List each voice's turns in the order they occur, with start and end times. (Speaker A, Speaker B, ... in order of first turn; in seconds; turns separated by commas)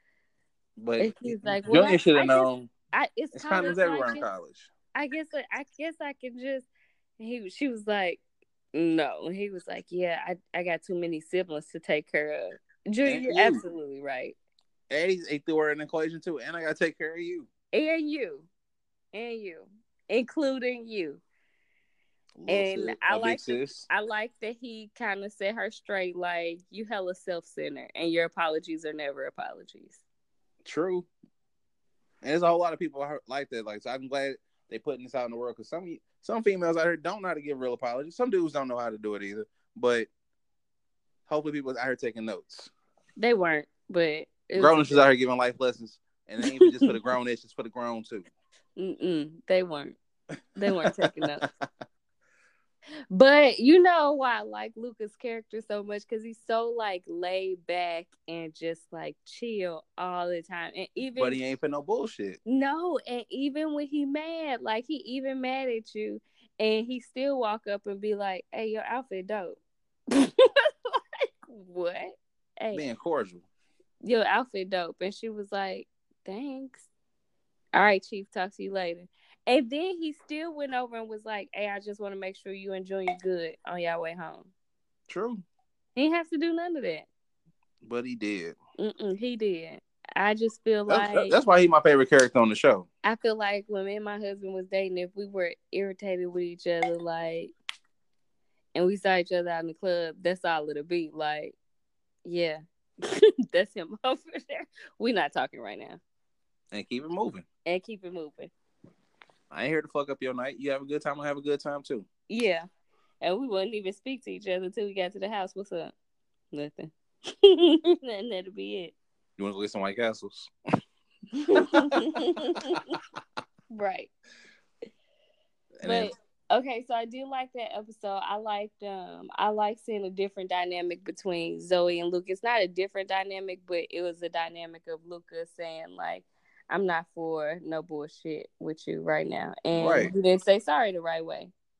Speaker A: 0.8-2.7, Speaker B: 1.0-4.2, Speaker A: 3.3-4.7, Speaker B: 4.9-6.7, Speaker B: 7.2-8.2, Speaker B: 8.7-14.3, Speaker A: 13.0-13.6, Speaker A: 14.9-17.5, Speaker B: 17.7-18.5, Speaker B: 19.1-21.2, Speaker A: 22.4-23.9, Speaker B: 22.5-30.0, Speaker A: 30.6-31.1, Speaker A: 32.2-40.1, Speaker A: 41.3-42.7, Speaker B: 43.2-45.0, Speaker A: 44.5-48.3, Speaker B: 46.4-47.0, Speaker B: 48.8-50.0, Speaker B: 50.6-51.4, Speaker A: 50.7-51.5, Speaker B: 53.1-61.4, Speaker A: 61.1-62.4, Speaker B: 62.5-69.6, Speaker B: 70.1-72.8, Speaker A: 72.7-73.4, Speaker B: 74.0-76.9, Speaker B: 77.7-84.5, Speaker A: 85.1-85.4, Speaker B: 86.0-87.0, Speaker A: 87.8-88.6, Speaker B: 88.8-91.3, Speaker A: 90.9-92.9, Speaker B: 93.0-97.5, Speaker B: 98.7-101.5, Speaker B: 102.2-106.0, Speaker A: 106.7-107.4, Speaker B: 107.7-108.5, Speaker A: 109.5-112.0, Speaker B: 112.3-112.6, Speaker B: 113.2-115.9, Speaker B: 116.5-118.9, Speaker A: 119.4-120.5, Speaker B: 121.4-122.8, Speaker A: 121.5-122.8, Speaker B: 123.7-124.1, Speaker A: 125.8-126.1, Speaker B: 125.8-141.5, Speaker A: 139.7-140.1